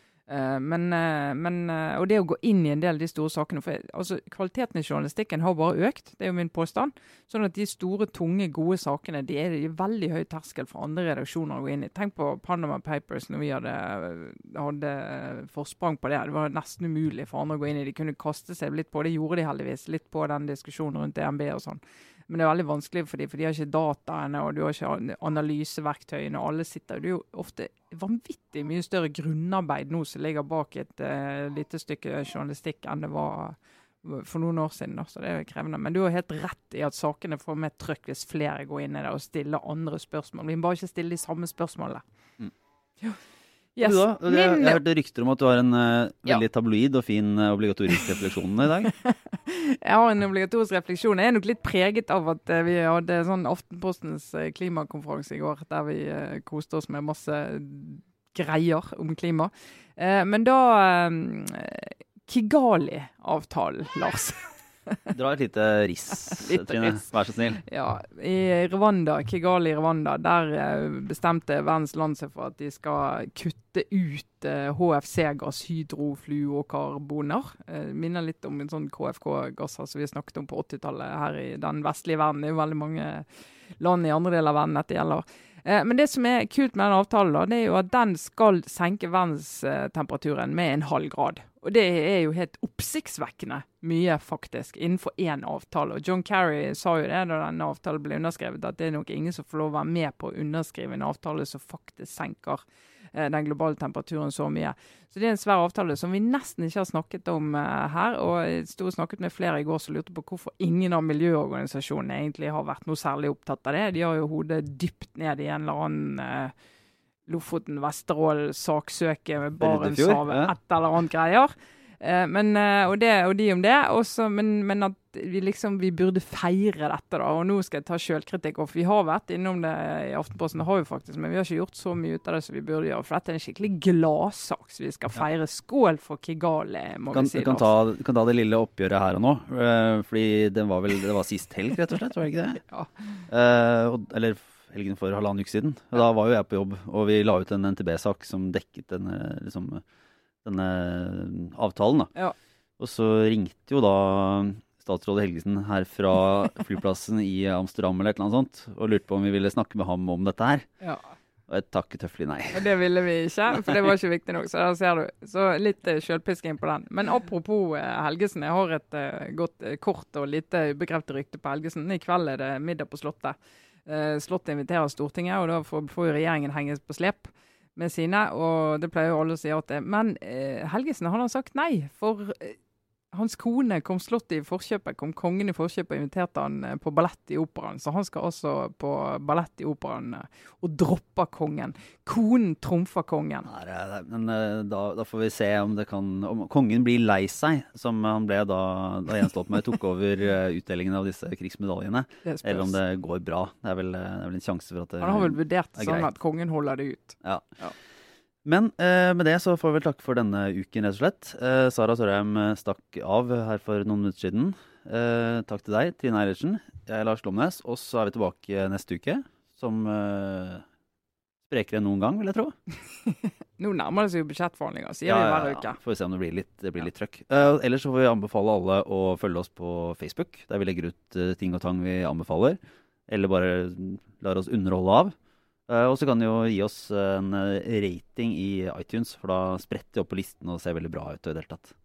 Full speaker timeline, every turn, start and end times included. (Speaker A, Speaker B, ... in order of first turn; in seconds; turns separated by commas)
Speaker A: 0.3-42.0, Speaker A: 43.8-44.8, Speaker B: 43.8-48.9, Speaker A: 49.0-65.0, Speaker B: 65.1-67.6, Speaker A: 66.3-67.1, Speaker A: 67.6-102.6, Speaker A: 103.1-116.5, Speaker A: 117.3-137.7, Speaker B: 119.6-120.5, Speaker B: 137.1-142.6, Speaker B: 143.3-149.8, Speaker B: 150.4-152.1, Speaker B: 152.8-160.7, Speaker B: 161.5-162.7, Speaker A: 162.5-182.6, Speaker A: 183.1-193.5, Speaker B: 193.4-206.1, Speaker A: 202.2-202.7, Speaker A: 205.0-207.7, Speaker B: 208.4-220.6, Speaker B: 221.5-222.5, Speaker A: 223.1-225.8, Speaker B: 225.1-235.1, Speaker B: 235.7-241.7